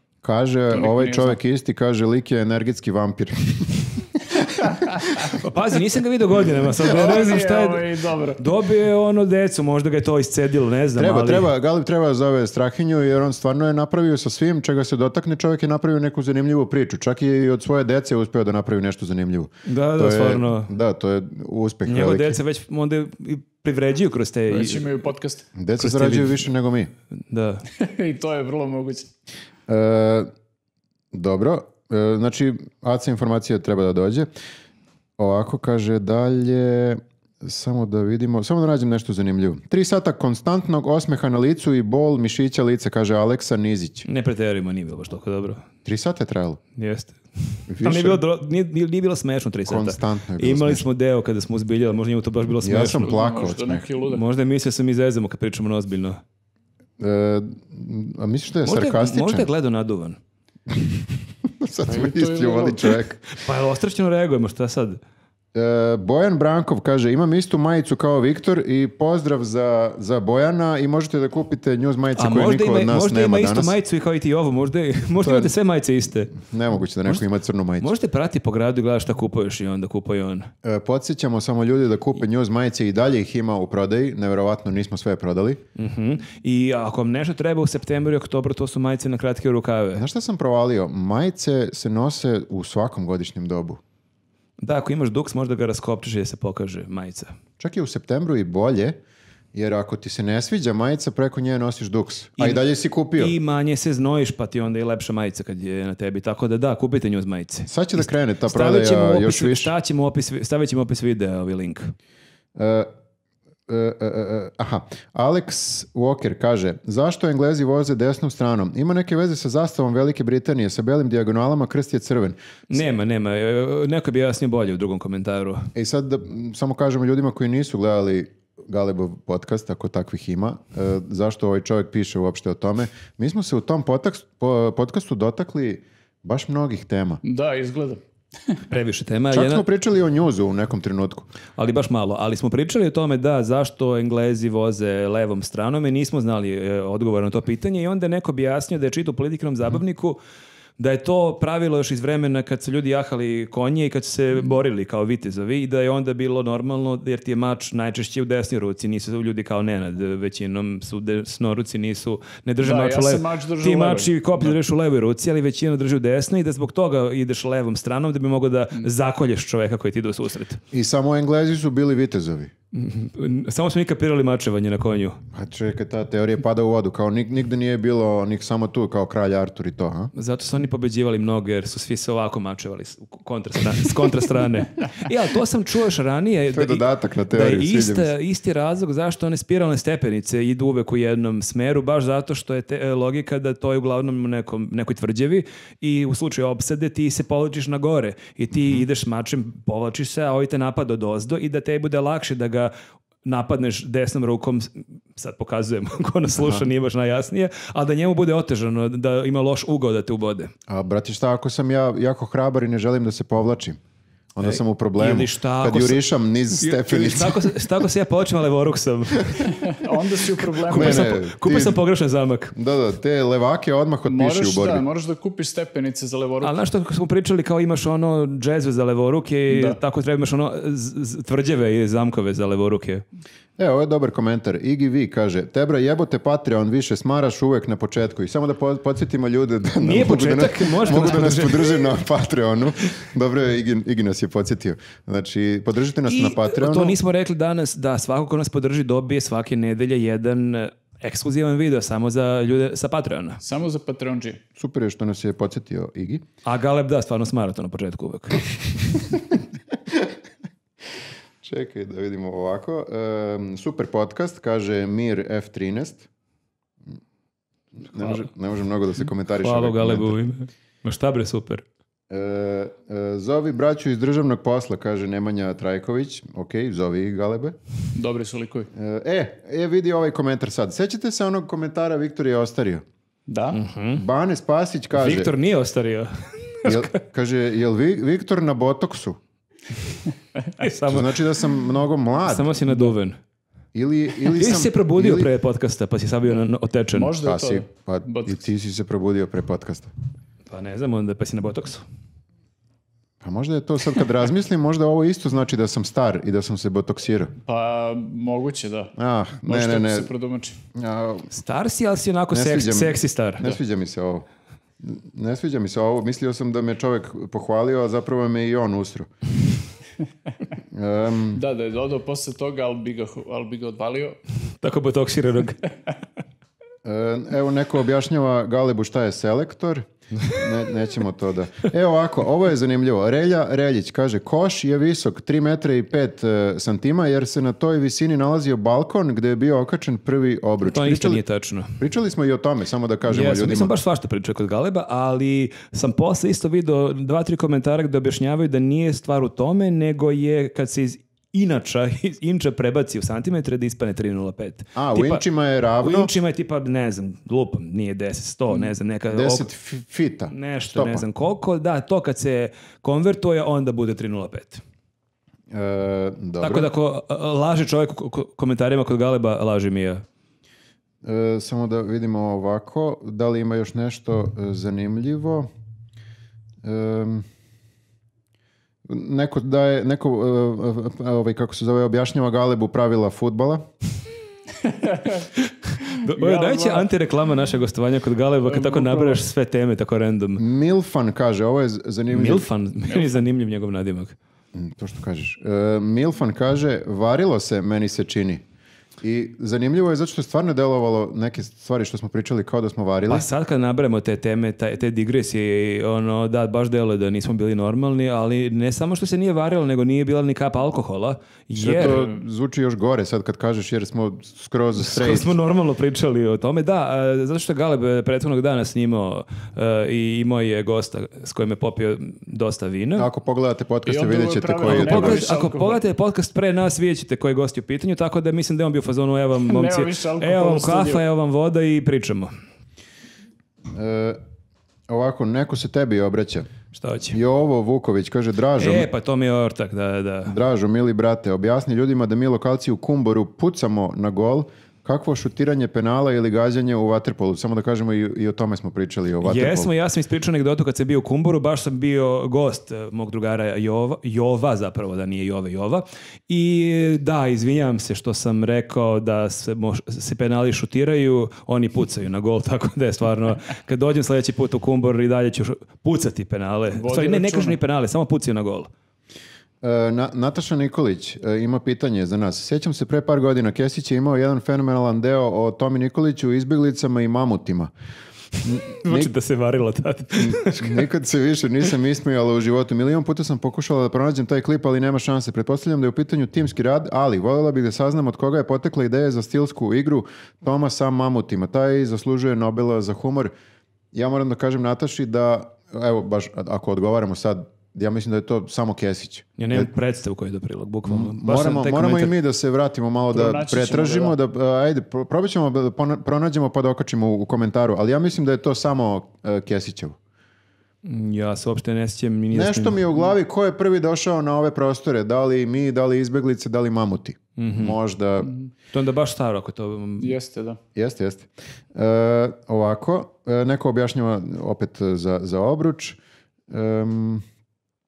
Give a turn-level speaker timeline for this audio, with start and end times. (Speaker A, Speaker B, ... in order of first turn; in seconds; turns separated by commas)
Speaker A: 0.2-5.3, Speaker B: 0.7-1.4, Speaker C: 5.2-7.8, Speaker B: 6.8-8.4, Speaker C: 8.4-11.5, Speaker A: 10.9-22.4, Speaker C: 19.6-20.7, Speaker C: 21.9-25.0, Speaker B: 24.5-25.5, Speaker A: 25.6-26.9, Speaker C: 25.8-26.5, Speaker C: 27.2-27.6, Speaker B: 27.7-29.1, Speaker A: 29.7-30.3, Speaker A: 31.1-34.3, Speaker A: 35.2-44.0, Speaker C: 44.0-45.6, Speaker A: 45.8-46.6, Speaker C: 46.8-53.1, Speaker A: 47.7-48.2, Speaker A: 49.6-50.8, Speaker A: 52.6-53.8, Speaker B: 53.0-54.2, Speaker C: 54.0-56.2, Speaker A: 57.0-59.5, Speaker C: 58.6-60.2, Speaker A: 60.7-63.2, Speaker B: 61.8-63.0, Speaker C: 63.3-65.0, Speaker A: 65.5-73.7, Speaker C: 72.2-76.3, Speaker A: 75.2-75.5, Speaker A: 76.3-77.9, Speaker C: 77.8-80.5, Speaker A: 80.6-85.6, Speaker C: 85.7-90.0, Speaker A: 89.9-93.8, Speaker C: 94.6-97.3, Speaker A: 97.6-99.0, Speaker A: 99.5-103.3, Speaker C: 103.2-111.9, Speaker A: 107.7-109.7, Speaker A: 112.5-112.9, Speaker A: 113.7-122.4, Speaker C: 122.7-125.7, Speaker A: 125.7-137.2, Speaker B: 137.2-138.6, Speaker C: 138.7-139.6, Speaker A: 139.3-141.3, Speaker C: 141.6-150.2, Speaker C: 150.8-170.6, Speaker B: 162.6-164.6, Speaker A: 170.7-172.5, Speaker C: 172.7-175.2, Speaker A: 175.3-180.1, Speaker C: 180.1-202.7, Speaker A: 186.5-188.1, Speaker C: 203.2-210.5, Speaker A: 206.3-206.6, Speaker A: 210.7-213.8, Speaker A: 214.3-217.6, Speaker C: 214.4-216.0, Speaker C: 216.6-219.7, Speaker B: 219.5-221.1, Speaker C: 220.7-222.5, Speaker A: 220.7-221.8, Speaker A: 222.5-224.8, Speaker B: 224.1-226.6, Speaker C: 226.4-233.0, Speaker B: 229.5-229.8, Speaker A: 233.6-247.0, Speaker C: 239.8-241.8, Speaker C: 246.1-253.4, Speaker B: 253.4-254.4, Speaker A: 254.6-256.2, Speaker C: 256.4-258.4, Speaker A: 259.1-259.3, Speaker A: 261.4-266.1, Speaker A: 267.8-270.1, Speaker C: 269.3-271.6, Speaker A: 272.1-277.6, Speaker B: 277.9-278.7, Speaker A: 278.7-282.8, Speaker B: 283.3-283.6, Speaker C: 283.5-284.0, Speaker A: 283.9-285.3, Speaker C: 284.9-287.0, Speaker A: 286.6-289.2, Speaker C: 290.6-291.2, Speaker A: 290.8-292.8, Speaker C: 292.2-293.2, Speaker A: 293.7-295.3, Speaker C: 294.2-297.1, Speaker B: 296.9-298.4, Speaker A: 297.2-299.9, Speaker C: 300.5-301.8, Speaker A: 303.2-307.3, Speaker B: 307.4-308.9, Speaker A: 308.9-310.1, Speaker B: 309.4-310.6, Speaker A: 310.7-311.3, Speaker C: 311.3-313.4, Speaker A: 312.3-314.2, Speaker A: 314.8-319.1, Speaker A: 320.7-321.4, Speaker B: 321.3-324.2, Speaker C: 324.6-325.7, Speaker A: 326.8-341.2, Speaker C: 340.6-341.8, Speaker A: 341.8-343.7, Speaker C: 343.1-355.2, Speaker A: 354.8-356.1, Speaker C: 355.8-359.5, Speaker A: 359.1-361.0, Speaker C: 360.3-364.6, Speaker A: 365.5-366.7, Speaker C: 366.4-370.0, Speaker A: 371.0-375.5, Speaker A: 376.6-377.2, Speaker A: 378.9-383.6, Speaker B: 384.6-385.3, Speaker C: 385.4-390.4, Speaker B: 385.9-386.9, Speaker B: 388.5-389.2, Speaker A: 390.4-392.5, Speaker C: 392.1-394.1, Speaker B: 392.9-393.2, Speaker A: 394.5-398.4, Speaker A: 399.0-403.3, Speaker C: 403.1-412.1, Speaker A: 411.6-415.3, Speaker C: 414.8-423.1, Speaker A: 422.9-425.3, Speaker B: 423.9-425.8, Speaker C: 424.7-432.3, Speaker B: 429.4-431.0, Speaker A: 433.7-434.2, Speaker A: 434.9-436.5, Speaker C: 436.7-437.2, Speaker A: 437.1-438.9, Speaker C: 438.6-440.4, Speaker A: 440.2-449.7, Speaker C: 449.2-468.7, Speaker B: 466.7-467.6, Speaker A: 469.6-477.7, Speaker A: 478.4-479.1, Speaker C: 478.7-480.8, Speaker A: 480.1-493.3, Speaker A: 493.9-499.7, Speaker C: 499.4-502.1, Speaker A: 500.9-510.0, Speaker B: 503.1-504.1, Speaker C: 510.8-512.8, Speaker A: 512.3-518.3, Speaker C: 517.4-517.8, Speaker C: 518.7-520.1, Speaker B: 520.0-520.6, Speaker A: 520.8-526.0, Speaker A: 526.5-527.2